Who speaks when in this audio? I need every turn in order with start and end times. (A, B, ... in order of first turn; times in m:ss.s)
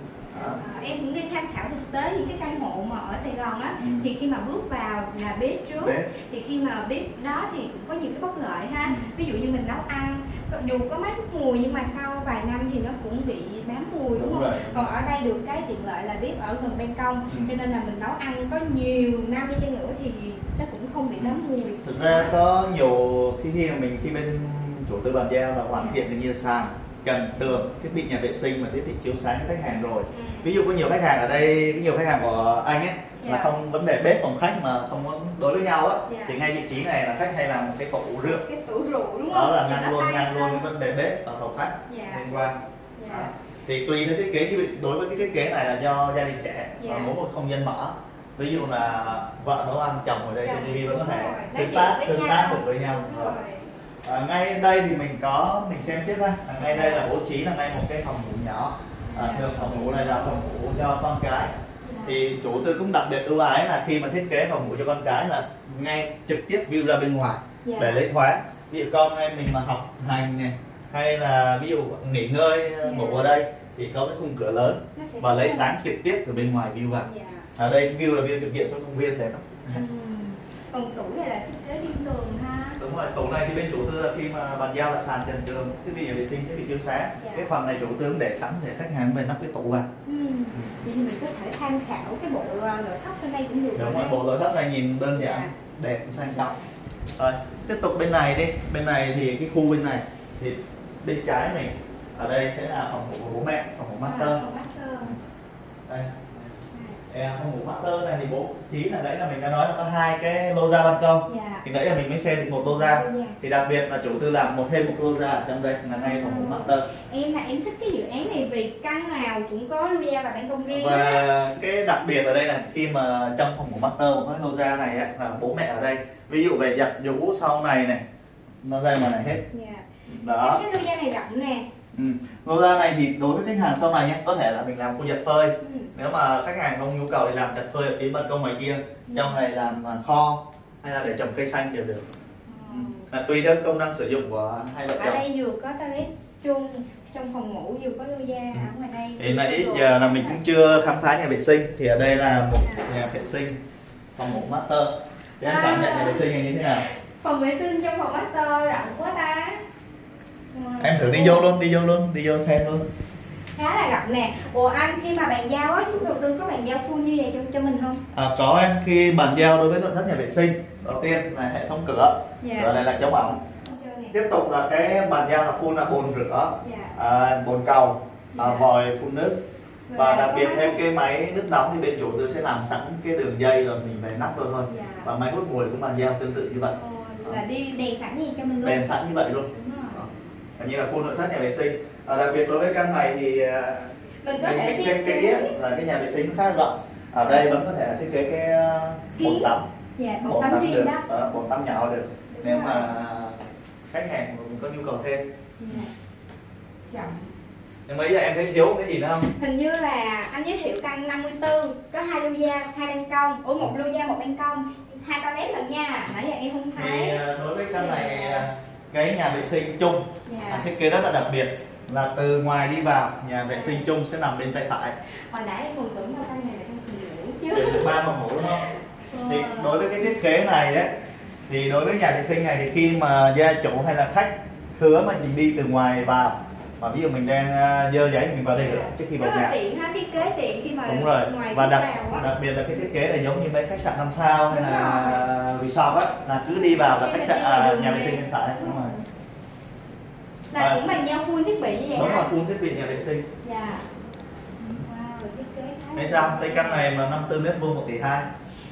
0:00.3-0:00.6 A
0:00.4-0:22.3 B
0:03.8-0:04.1 A
0:05.8-0:06.1 A
0:08.8-0:09.1 A
0:14.1-0:14.9 A
0:21.2-0:38.4 A
0:25.7-0:26.0 B
0:30.1-0:30.5 B
0:33.2-0:33.5 B
0:36.1-0:36.4 B
0:38.2-0:40.6 B
0:39.3-0:53.3 A
0:41.9-0:42.4 B
0:43.0-0:43.3 B
0:46.8-0:47.1 B
0:50.4-0:53.6 B
0:54.0-1:01.5 A
0:56.6-0:57.1 B
0:59.1-1:00.0 B
1:01.8-1:02.2 B
1:02.0-1:19.8 A
1:07.6-1:08.0 B
1:12.8-1:13.3 B
1:15.0-1:15.7 B
1:17.0-1:17.4 B
1:19.7-1:22.8 B
1:22.8-1:29.9 A
1:27.2-1:27.5 B
1:30.0-1:34.2 B
1:33.8-1:36.6 A
1:35.1-1:35.5 B
1:37.2-1:44.4 A
1:44.0-1:45.2 B
1:45.9-1:46.5 A
1:46.7-1:47.0 B
1:47.1-1:56.9 A
1:51.3-1:51.6 B
1:52.6-1:53.4 B
1:55.9-2:01.2 B
2:00.7-2:08.0 A
2:08.6-2:09.4 A
2:09.5-2:11.7 B
2:10.1-2:10.6 A
2:11.9-2:22.1 A
2:15.6-2:15.9 B
2:19.1-2:19.4 B
2:22.4-2:23.1 B
2:22.7-2:25.2 A
2:24.9-2:30.4 B
2:28.5-2:33.6 A
2:32.6-2:32.9 B
2:34.2-2:36.8 A
2:35.4-2:39.6 B
2:40.5-2:41.4 B
2:40.8-2:42.8 A
2:43.5-2:48.0 B
2:48.1-2:53.4 A
2:52.4-2:52.7 B
2:53.6-2:54.2 B
2:54.1-2:59.4 A
2:56.6-2:57.0 B
2:58.3-2:58.7 B
2:59.9-3:00.8 B
2:59.9-3:07.4 A
3:04.7-3:05.1 B
3:06.7-3:08.8 B
3:08.6-3:19.6 A
3:09.5-3:10.1 B
3:14.2-3:15.5 B
3:19.2-3:21.0 B
3:20.2-3:25.8 A
3:22.3-3:22.9 B
3:25.6-3:25.9 B
3:26.9-3:27.3 B
3:27.9-3:29.3 A
3:29.3-3:37.2 B
3:36.8-3:45.0 A
3:37.7-3:38.5 B
3:40.2-3:40.7 B
3:43.5-3:43.8 B
3:45.3-3:50.1 B
3:47.5-3:48.6 A
3:49.2-3:50.9 A
3:51.5-3:59.5 A
3:58.5-4:02.3 B
4:00.8-4:08.9 A
4:04.5-4:05.2 B
4:06.6-4:09.0 B
4:10.5-4:12.3 B
4:10.6-4:10.8 A
4:11.9-4:13.3 A
4:13.4-4:13.8 B
4:14.8-4:16.9 B
4:16.0-4:18.3 A